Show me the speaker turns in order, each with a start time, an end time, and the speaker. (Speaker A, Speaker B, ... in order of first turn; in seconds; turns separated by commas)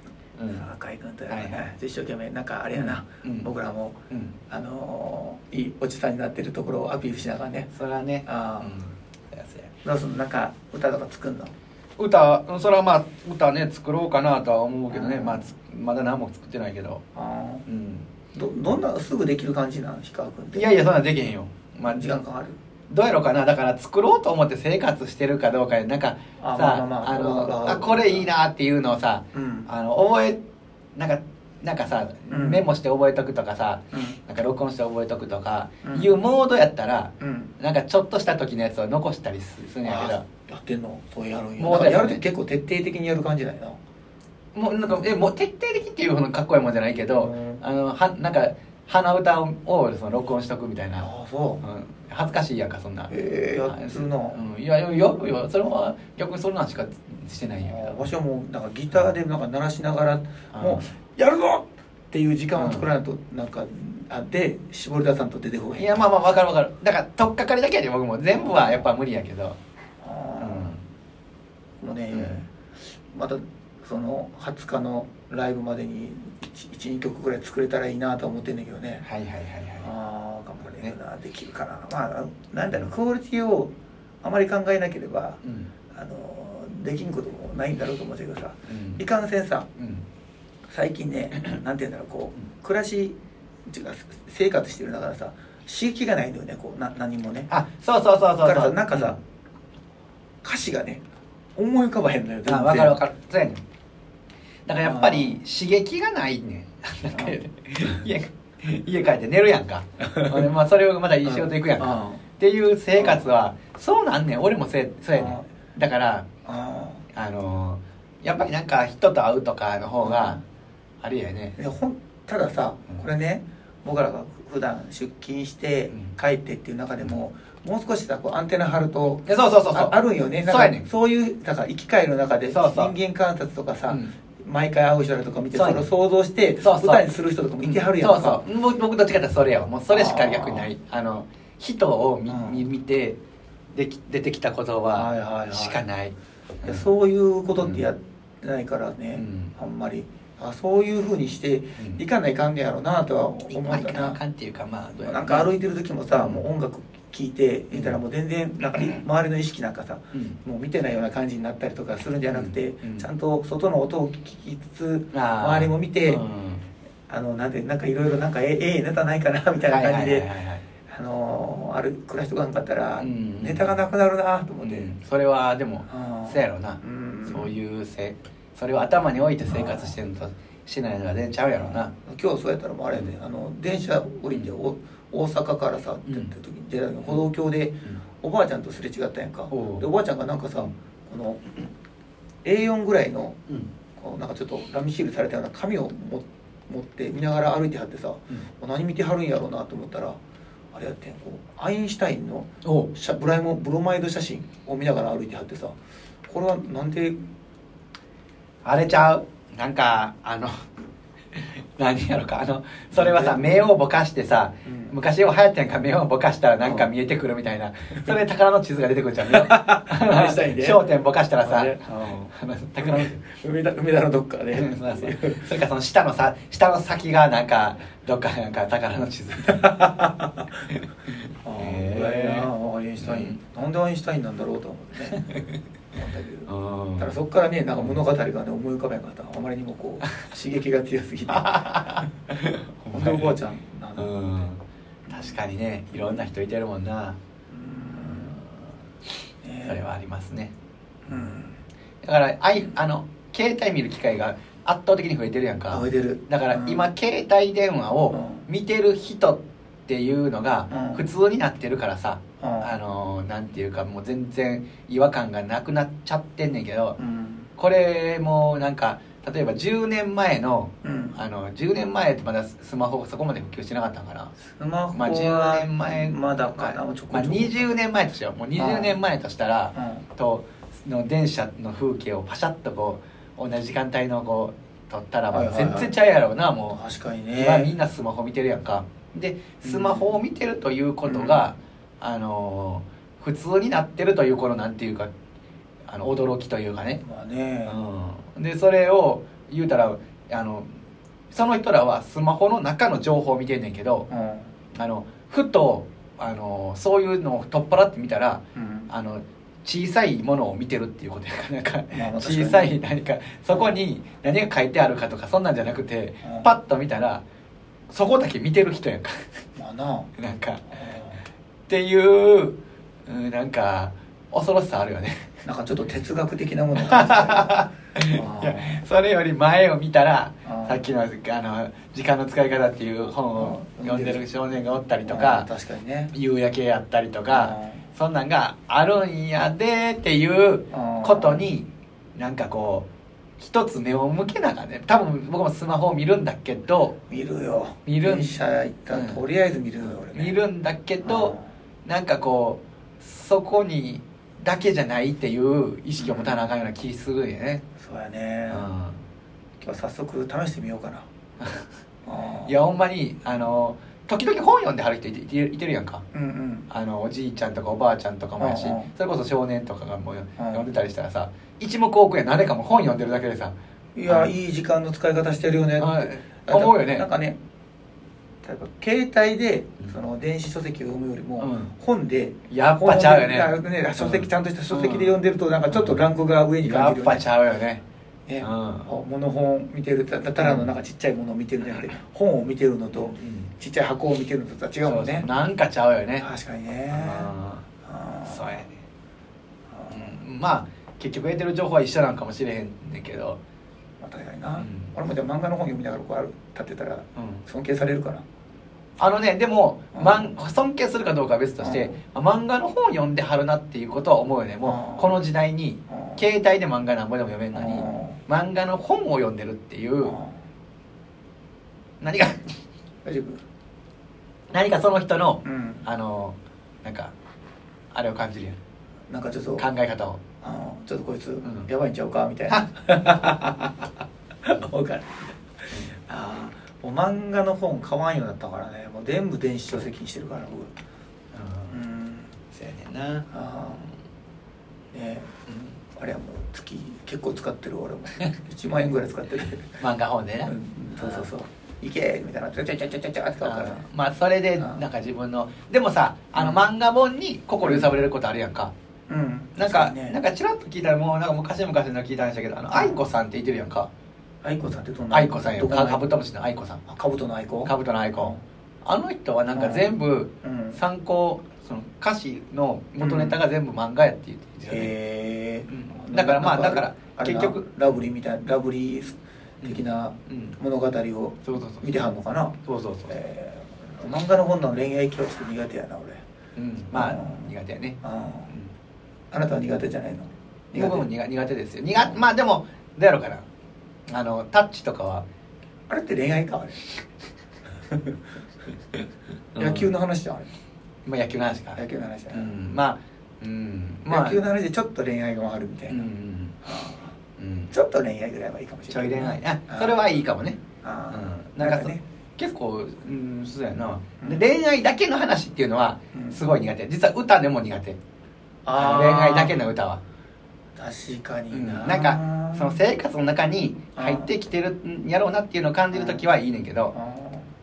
Speaker A: 0.4-0.7, Speaker B: 0.5-4.0, Speaker A: 1.3-1.7, Speaker A: 2.7-3.5, Speaker B: 4.5-7.7, Speaker A: 7.7-9.7, Speaker B: 8.2-8.8, Speaker B: 9.8-11.5, Speaker A: 12.0-17.0, Speaker B: 14.9-15.5, Speaker B: 17.1-17.7, Speaker A: 17.7-18.1, Speaker B: 18.3-20.7, Speaker A: 20.5-22.1, Speaker B: 21.8-22.6, Speaker A: 22.9-30.4, Speaker B: 26.4-28.3, Speaker B: 29.3-29.7, Speaker A: 30.9-40.2, Speaker B: 32.3-32.7, Speaker B: 35.8-36.1, Speaker B: 37.2-37.5, Speaker B: 39.8-43.8, Speaker A: 41.6-42.2, Speaker A: 44.5-51.1, Speaker B: 47.1-47.6, Speaker B: 51.0-51.6, Speaker A: 51.6-58.0, Speaker B: 53.1-54.4, Speaker B: 57.6-66.1, Speaker A: 60.5-60.9, Speaker A: 62.5-62.9, Speaker A: 65.8-69.6, Speaker B: 68.3-68.8, Speaker B: 70.0-70.7, Speaker A: 70.4-70.8, Speaker B: 71.8-72.5, Speaker A: 72.1-72.4, Speaker B: 73.1-79.0, Speaker A: 79.0-79.9, Speaker B: 79.8-89.7, Speaker A: 85.4-85.7, Speaker A: 88.7-89.0, Speaker A: 89.8-90.0, Speaker B: 90.7-93.2, Speaker B: 93.7-97.5, Speaker A: 97.5-99.2, Speaker B: 98.4-99.2, Speaker B: 100.4-101.0, Speaker B: 101.6-103.0, Speaker A: 102.5-103.6, Speaker A: 104.7-116.3, Speaker B: 104.8-105.4, Speaker B: 110.0-110.5, Speaker B: 111.2-112.2, Speaker B: 113.0-113.3, Speaker B: 115.2-115.5, Speaker B: 116.5-117.0, Speaker A: 117.1-120.4, Speaker B: 120.0-120.4, Speaker A: 121.0-121.5, Speaker B: 121.6-138.4, Speaker A: 129.3-130.9, Speaker A: 132.5-132.9, Speaker A: 133.9-134.1, Speaker A: 135.6-135.9, Speaker A: 136.6-137.1, Speaker A: 137.6-143.2, Speaker B: 139.9-140.7, Speaker B: 142.3-142.7, Speaker A: 143.7-146.9, Speaker B: 144.9-145.8, Speaker B: 146.6-154.2, Speaker A: 149.2-149.5, Speaker A: 151.8-152.0, Speaker A: 153.5-155.5, Speaker B: 155.0-166.2, Speaker A: 156.1-156.4, Speaker A: 157.7-158.0, Speaker A: 160.1-160.4, Speaker A: 162.3-163.1, Speaker A: 165.1-166.7, Speaker B: 167.1-170.3, Speaker A: 169.7-170.6, Speaker B: 170.9-174.9, Speaker A: 173.0-173.7, Speaker A: 174.6-181.9, Speaker B: 175.9-177.5, Speaker B: 179.5-180.0, Speaker B: 181.6-191.6, Speaker A: 189.5-189.8, Speaker B: 192.4-193.4, Speaker B: 194.0-200.2, Speaker B: 200.7-205.8, Speaker A: 202.6-202.9, Speaker B: 206.3-207.3, Speaker A: 208.6-210.5, Speaker A: 211.3-223.2, Speaker B: 212.9-213.5, Speaker B: 214.7-214.9, Speaker B: 216.6-216.9, Speaker B: 219.2-225.4, Speaker A: 224.5-229.8, Speaker B: 229.5-230.5, Speaker A: 230.7-232.5, Speaker B: 231.4-235.3, Speaker A: 233.0-233.4, Speaker B: 235.9-242.1, Speaker A: 236.5-237.2, Speaker A: 241.3-243.3, Speaker B: 242.9-244.3, Speaker A: 244.0-247.2, Speaker B: 245.1-245.4, Speaker B: 245.9-246.2, Speaker B: 247.5-248.4, Speaker B: 249.4-249.9, Speaker A: 249.7-250.5, Speaker B: 251.1-251.6, Speaker A: 252.0-267.0, Speaker B: 255.7-256.9, Speaker B: 258.1-258.5, Speaker B: 260.7-261.1, Speaker B: 262.4-262.7, Speaker B: 267.0-267.5, Speaker A: 267.6-274.3, Speaker B: 270.8-271.2, Speaker B: 274.4-277.7, Speaker A: 274.9-286.8, Speaker B: 278.6-279.0, Speaker B: 279.8-280.1, Speaker B: 285.3-285.9, Speaker B: 286.7-287.7, Speaker A: 287.4-295.1, Speaker B: 289.6-290.2, Speaker B: 291.1-291.4, Speaker A: 295.9-297.0, Speaker B: 297.0-297.8, Speaker A: 297.7-300.7, Speaker A: 301.3-304.1, Speaker B: 304.1-304.5, Speaker A: 304.8-317.2, Speaker B: 308.6-308.9, Speaker B: 311.9-312.8, Speaker B: 313.5-313.8, Speaker B: 316.2-316.5, Speaker A: 317.9-319.3, Speaker B: 319.6-320.1, Speaker A: 320.2-320.6, Speaker B: 320.7-321.2, Speaker A: 321.7-325.3, Speaker B: 325.4-328.8, Speaker A: 326.8-335.5, Speaker B: 330.4-330.8, Speaker B: 333.3-334.2, Speaker B: 335.0-336.1, Speaker A: 336.1-342.9, Speaker B: 337.3-337.9, Speaker B: 340.7-341.5, Speaker A: 343.4-347.0, Speaker B: 347.1-350.4, Speaker A: 347.9-348.4, Speaker A: 348.9-349.2, Speaker A: 349.9-357.6, Speaker B: 351.0-351.5, Speaker B: 356.0-356.4, Speaker B: 357.8-358.7, Speaker A: 358.5-359.0, Speaker B: 359.6-361.1, Speaker B: 362.1-362.6, Speaker A: 362.5-366.0, Speaker B: 366.1-366.7, Speaker A: 366.7-373.5, Speaker B: 368.4-368.9, Speaker B: 370.4-370.6, Speaker B: 374.0-377.4, Speaker A: 375.8-377.1, Speaker B: 378.4-387.3, Speaker A: 381.4-381.7, Speaker A: 382.5-385.2, Speaker A: 385.7-386.0, Speaker A: 386.6-387.8, Speaker B: 388.3-395.3, Speaker A: 388.4-388.9, Speaker A: 390.4-390.7, Speaker A: 393.1-393.5, Speaker A: 394.8-396.3, Speaker B: 396.2-397.3, Speaker A: 396.9-397.6, Speaker B: 397.8-398.6, Speaker A: 398.3-398.8, Speaker B: 399.7-400.2, Speaker A: 399.9-403.4, Speaker B: 404.0-408.2, Speaker A: 404.6-404.9, Speaker A: 407.2-407.4, Speaker A: 409.0-420.2, Speaker B: 409.9-410.3, Speaker B: 411.6-412.0, Speaker B: 414.6-415.1, Speaker B: 415.9-416.2, Speaker B: 417.5-418.2, Speaker B: 420.0-420.4, Speaker A: 422.0-422.4, Speaker B: 423.1-423.4, Speaker A: 424.5-427.1, Speaker B: 425.4-425.9, Speaker A: 427.9-428.6, Speaker B: 429.1-429.6, Speaker A: 429.6-430.2, Speaker B: 430.4-433.9, Speaker A: 431.4-431.7, Speaker B: 434.4-440.7, Speaker A: 441.3-441.8, Speaker B: 441.7-442.3, Speaker A: 442.5-443.3, Speaker B: 443.3-443.9, Speaker B: 444.9-445.3, Speaker A: 445.5-445.7, Speaker B: 445.9-449.8, Speaker A: 449.8-451.3, Speaker B: 450.4-453.8, Speaker A: 453.4-458.7, Speaker B: 456.3-456.6, Speaker B: 457.6-458.0, Speaker B: 459.1-460.2, Speaker A: 459.6-463.9, Speaker B: 462.7-463.0, Speaker B: 464.4-466.0, Speaker A: 465.1-466.8, Speaker B: 466.9-468.4, Speaker A: 467.6-468.3, Speaker A: 468.9-474.9, Speaker B: 469.5-470.8, Speaker B: 473.0-473.4, Speaker B: 474.7-486.2, Speaker A: 475.7-478.0, Speaker A: 479.6-480.6, Speaker A: 481.4-481.9, Speaker A: 482.7-483.1, Speaker A: 486.6-488.0, Speaker B: 486.9-487.5, Speaker B: 488.0-488.5, Speaker B: 489.3-491.1, Speaker A: 490.8-493.5, Speaker A: 494.1-495.3, Speaker B: 495.9-496.9, Speaker B: 497.9-498.2, Speaker A: 499.6-499.9, Speaker B: 499.6-500.5, Speaker A: 501.1-501.8, Speaker B: 501.8-502.6, Speaker A: 502.3-504.4, Speaker B: 504.1-506.1, Speaker A: 505.9-506.6, Speaker B: 506.6-507.1, Speaker A: 507.4-507.7, Speaker B: 507.7-510.0, Speaker A: 508.9-510.6, Speaker B: 510.8-512.0, Speaker A: 511.1-518.0, Speaker B: 514.2-514.5, Speaker B: 516.1-516.5, Speaker B: 518.6-519.6, Speaker A: 518.7-520.0, Speaker B: 520.8-522.8, Speaker A: 521.5-526.9, Speaker B: 524.0-524.3, Speaker B: 525.9-526.3, Speaker B: 526.9-527.5